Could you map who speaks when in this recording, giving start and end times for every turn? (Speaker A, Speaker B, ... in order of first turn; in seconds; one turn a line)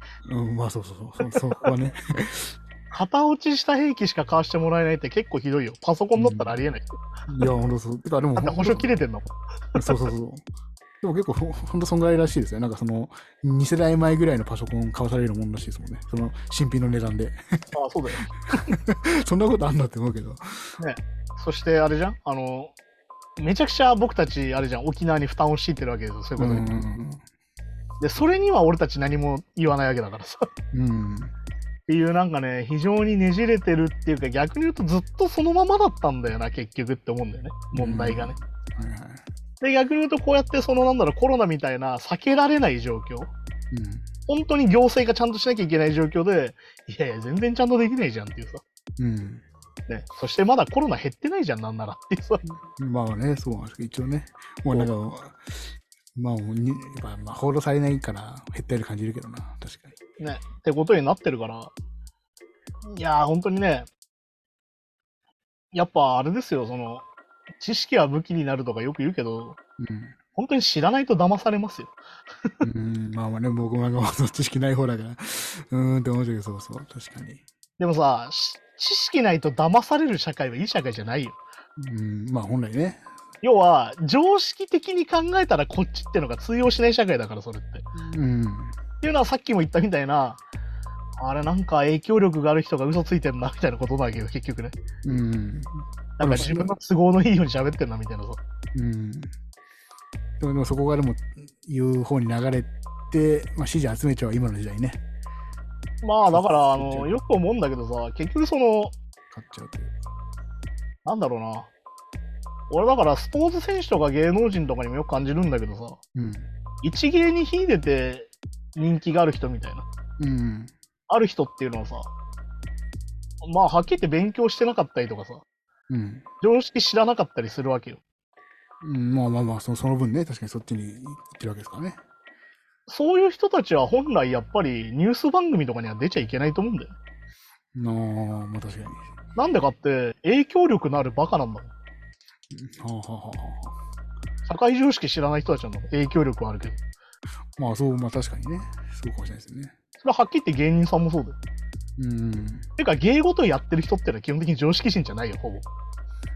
Speaker A: 0.2-2.5
Speaker B: 2.9-6.8
Speaker A: 6.2-6.5
Speaker A: 7.3-8.9
Speaker B: 8.4-9.3
Speaker A: 9.7-10.4
Speaker A: 11.0-17.6
Speaker B: 17.7-18.7
Speaker A: 18.6-20.6
Speaker B: 20.8-22.7
Speaker B: 23.4-26.6
Speaker A: 26.4-27.2
Speaker B: 28.0-30.5
Speaker A: 30.7-31.3
Speaker B: 31.9-38.3
Speaker A: 37.7-39.2
Speaker B: 39.6-43.3
Speaker A: 43.7-44.0
Speaker B: 44.3-48.6
Speaker A: 49.0-49.4
Speaker B: 49.9-52.4
Speaker A: 52.5-59.9
Speaker B: 60.2-61.7
Speaker B: 62.8-63.9
Speaker B: 65.7-67.0
Speaker B: 67.6-69.6
Speaker A: 69.8-70.1
Speaker B: 70.3-71.9
Speaker A: 72.6-77.4
Speaker B: 77.8-81.4
Speaker A: 81.8-83.0
Speaker B: 83.4-87.9
Speaker A: 87.9-88.8
Speaker B: 89.0-90.4
Speaker B: 91.2-94.7
Speaker A: 95.0-96.7
Speaker B: 96.2-98.4
Speaker A: 98.7-99.3
Speaker A: 100.4-105.0
Speaker B: 106.0-108.9
Speaker A: 106.3-107.1
Speaker A: 109.3-110.0
Speaker B: 111.0-111.7
Speaker B: 112.7-116.0
Speaker A: 116.1-116.5
Speaker B: 116.8-119.8
Speaker A: 120.2-120.7
Speaker B: 121.1-122.1
Speaker B: 123.4-125.4
Speaker A: 125.9-126.2
Speaker B: 126.4-128.0
Speaker A: 128.8-132.0
Speaker B: 132.9-136.9
Speaker A: 137.7-139.1
Speaker B: 139.3-141.7
Speaker A: 142.5-143.7
Speaker B: 144.4-146.8
Speaker A: 147.6-149.7
Speaker B: 150.0-151.4
Speaker A: 152.0-152.7
Speaker B: 152.8-155.6